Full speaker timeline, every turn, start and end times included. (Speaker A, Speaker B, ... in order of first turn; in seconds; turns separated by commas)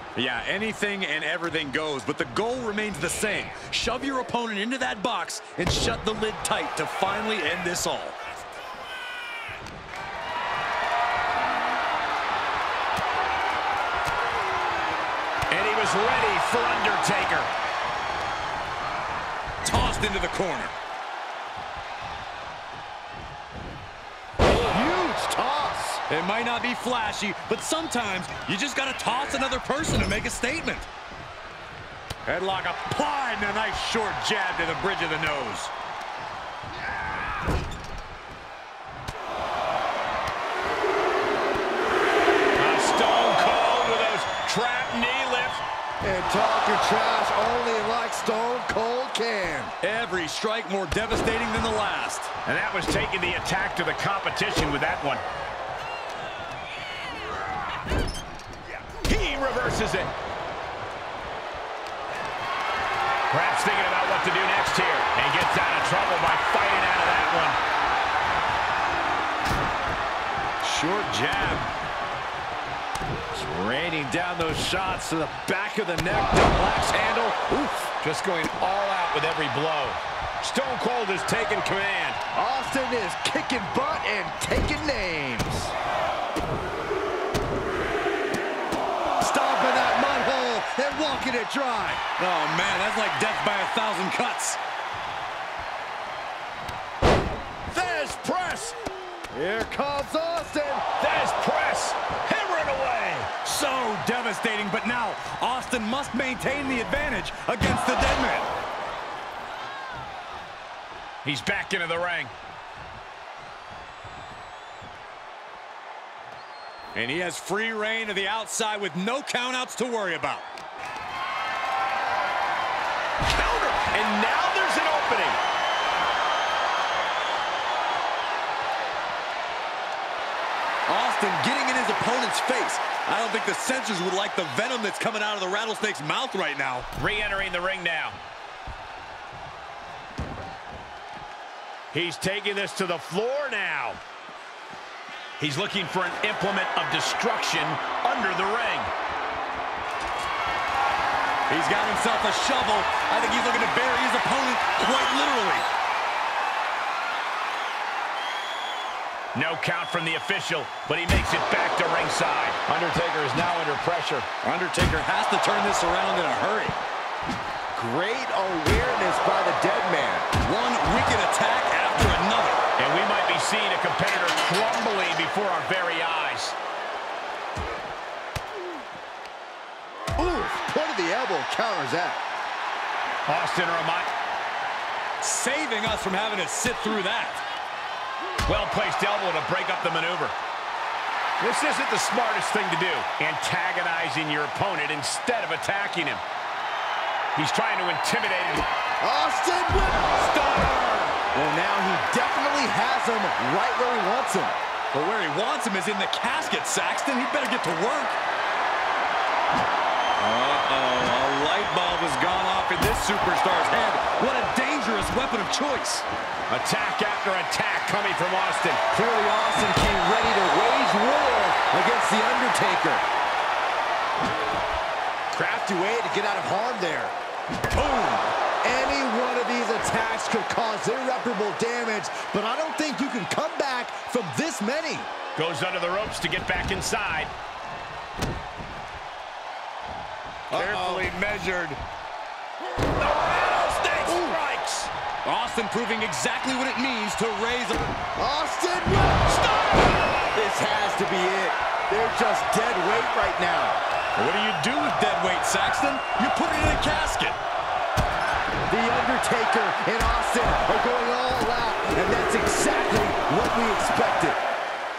Speaker A: 0.2-8.2, Speaker B: 15.5-17.5, Speaker A: 19.6-20.8, Speaker C: 24.7-26.0, Speaker A: 26.1-30.9, Speaker A: 32.3-35.7, Speaker B: 42.6-45.6, Speaker C: 46.0-49.7, Speaker A: 49.8-52.3, Speaker B: 52.5-55.2, Speaker B: 59.0-60.1, Speaker B: 63.3-67.6, Speaker A: 70.6-71.7, Speaker A: 73.3-75.4, Speaker C: 75.3-77.9, Speaker A: 76.1-76.8, Speaker B: 78.0-82.2, Speaker C: 82.3-85.7, Speaker C: 89.2-92.0, Speaker A: 92.2-94.6, Speaker B: 97.7-98.7, Speaker C: 99.3-100.8, Speaker B: 101.0-103.3, Speaker A: 103.4-108.5, Speaker B: 111.2-112.3, Speaker A: 117.0-120.5, Speaker B: 123.3-125.4, Speaker A: 130.9-136.9, Speaker B: 137.0-138.2, Speaker B: 141.9-144.0, Speaker B: 145.4-148.9, Speaker A: 151.5-155.7, Speaker B: 159.3-164.3, Speaker A: 164.4-166.8, Speaker C: 167.8-170.3, Speaker A: 170.4-172.7, Speaker B: 172.8-176.6, Speaker C: 180.2-182.2, Speaker B: 183.3-184.1, Speaker A: 185.2-187.4, Speaker B: 188.5-190.4, Speaker B: 191.4-196.2, Speaker B: 197.3-198.7, Speaker C: 199.0-200.3, Speaker A: 200.2-201.2, Speaker C: 201.3-204.6, Speaker A: 204.9-208.2, Speaker A: 210.2-216.1, Speaker B: 216.5-218.8, Speaker C: 218.9-223.0, Speaker C: 225.3-227.1, Speaker A: 227.7-228.3, Speaker C: 228.6-235.1, Speaker B: 235.3-237.3, Speaker A: 240.5-241.8, Speaker C: 240.5-241.1, Speaker B: 243.0-244.9, Speaker C: 244.1-244.4, Speaker A: 245.2-247.9, Speaker C: 248.2-253.8, Speaker A: 254.2-257.4, Speaker C: 258.7-264.4